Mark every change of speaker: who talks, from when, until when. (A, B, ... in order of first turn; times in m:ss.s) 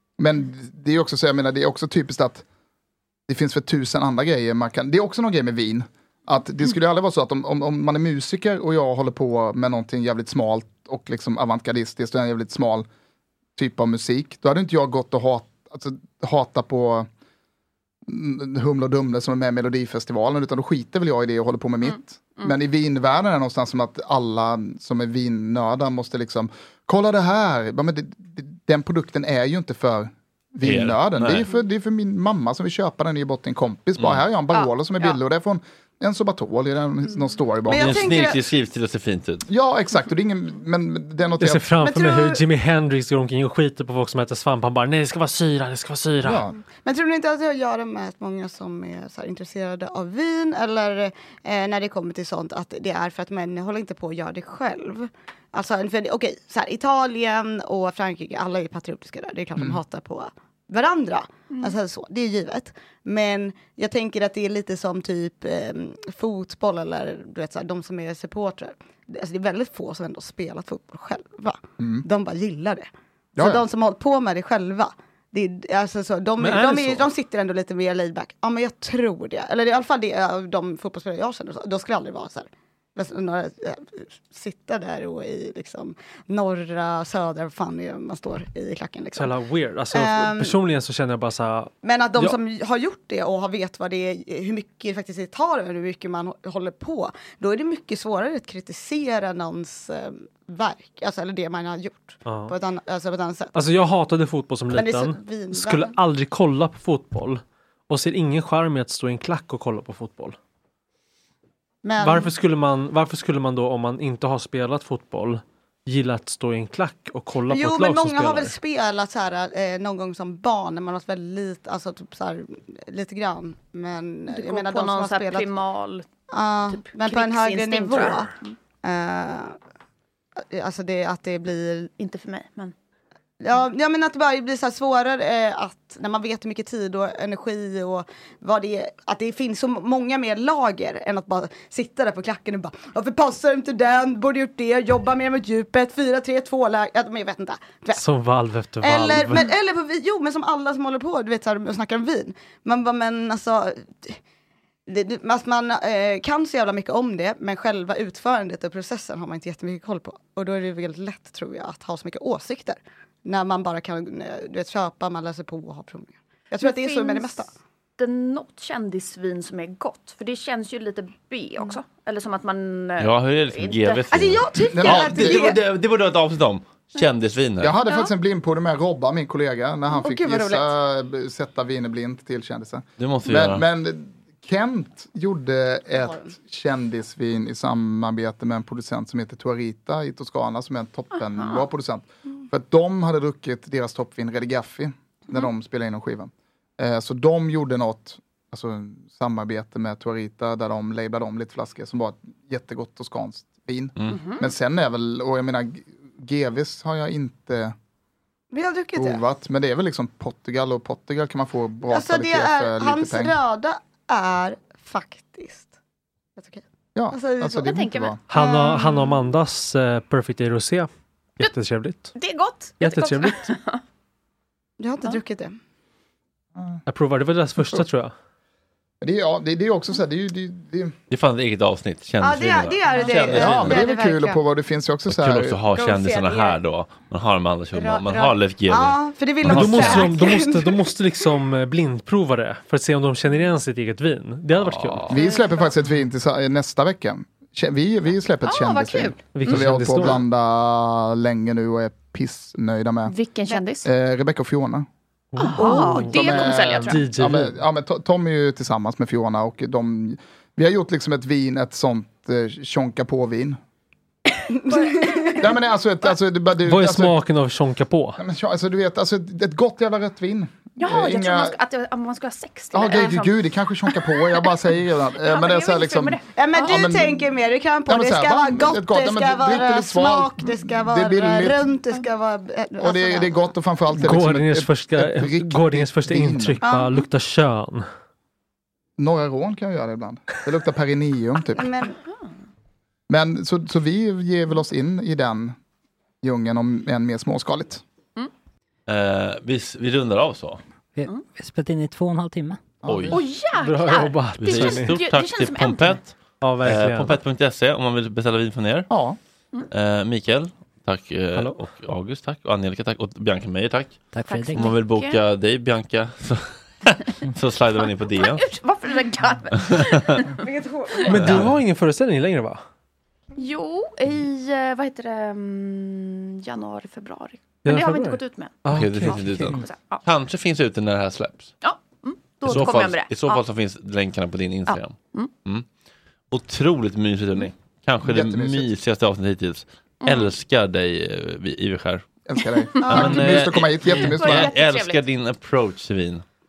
0:00.2-0:02.4 A
0:03.3-0:12.9 A
0:13.6-0:17.1 A
0:18.1-0:38.1 A
0:21.9-0:22.5 B
0:30.6-0:31.5 C
0:34.0-0:34.2 C
0:34.5-0:35.2 B
0:37.7-0:38.4 D
0:37.7-0:39.4 C
0:39.5-0:41.7 A
0:41.4-0:46.4 E
0:41.8-0:42.4 D
0:46.2-0:46.6 A
0:46.7-1:29.4 D
0:59.6-0:59.8 A
1:11.8-1:12.1 A
1:13.4-1:13.6 A
1:16.4-1:17.1 E
1:29.1-1:32.4 E
1:29.9-1:30.6 D
1:31.8-1:43.5 D
1:42.2-1:42.5 E
1:43.5-1:50.4 E
1:44.7-1:46.0 D
1:51.8-1:52.3 D
1:52.0-1:58.6 E
1:57.5-2:05.5 D
2:04.3-2:06.1 B
2:06.3-2:09.6 D
2:06.7-2:08.6 B
2:10.4-2:11.9 D
2:12.0-2:12.7 B
2:13.4-2:28.0 D
2:27.9-2:29.5 E
2:28.8-2:34.2 D
2:34.9-2:47.5 D
2:46.6-2:47.4 B
2:48.0-2:54.0 B
2:53.0-2:57.7 C
2:54.1-2:55.6 D
2:54.7-2:55.5 A
2:57.6-3:27.7 A
2:57.8-2:58.1 B
2:59.9-3:00.7 D
3:03.0-3:03.6 C
3:05.9-3:06.3 D
3:11.2-3:11.6 B
3:24.1-3:24.5 B
3:28.5-3:29.2 D
3:29.0-3:33.4 A
3:31.9-3:35.7 D
3:36.4-3:37.7 D
3:37.0-3:38.2 A
3:37.6-3:38.1 B
3:38.3-3:40.9 E
3:38.3-3:39.3 D
3:41.4-3:42.1 E
3:42.1-3:43.8 B
3:42.8-3:43.5 E
3:44.8-3:45.6 D
3:46.9-3:48.1 E
3:49.0-3:50.9 A
3:51.1-3:53.8 C
3:52.2-3:54.4 D
3:53.0-3:55.6 A
3:53.3-3:53.8 E
3:55.1-4:00.3 C
3:55.7-3:56.6 D
3:57.7-4:00.9 D
3:59.4-4:05.2 E
4:04.6-4:05.2 C
4:05.1-4:13.1 A
4:05.1-4:05.7 D
4:08.4-4:09.6 B
4:09.3-4:10.2 E
4:13.0-4:13.9 B
4:13.8-4:14.9 A
4:15.3-4:17.6 E
4:15.4-4:17.0 B
4:15.6-4:16.4 D
4:16.1-4:23.6 A
4:24.5-4:25.5 D
4:24.7-4:25.4 B
4:25.4-4:27.2 A
4:26.6-4:28.2 E
4:28.2-4:31.6 A
4:30.8-4:34.5 B
4:32.7-4:37.3 A
4:35.2-4:36.8 B
4:36.3-4:43.5 D
4:37.9-4:41.6 A
4:42.8-4:46.6 A
4:44.0-4:47.8 E
4:46.6-4:47.1 D
4:49.0-4:51.7 A
4:51.5-4:52.0 D
4:53.1-4:55.6 A
4:56.2-4:57.8 A
4:58.9-5:00.6 C
5:01.0-5:02.6 F
5:02.8-5:03.2 A
5:02.9-5:03.2 C
5:03.1-5:06.0 B
5:03.6-5:05.0 E
5:04.4-5:08.9 C
5:06.4-5:07.2 E
5:08.9-5:09.2 A
5:09.7-5:18.4 C
5:11.4-5:11.6 E
5:14.1-5:14.6 F
5:14.3-5:15.2 B
5:18.2-5:20.4 B
5:19.6-5:20.2 C
5:20.4-5:21.4 D
5:21.0-5:22.6 E
5:21.1-5:21.5 C
5:23.4-5:30.0 B
5:27.6-5:29.5 E
5:28.7-5:31.5 C
5:31.6-5:33.4 B
5:32.4-5:35.7 C
5:34.7-5:35.3 B
5:36.3-5:42.1 C
5:38.0-5:38.7 A
5:40.0-5:40.3 B
5:42.3-5:44.5 A
5:42.8-5:43.4 D
5:42.8-5:46.2 C
5:43.7-5:45.0 B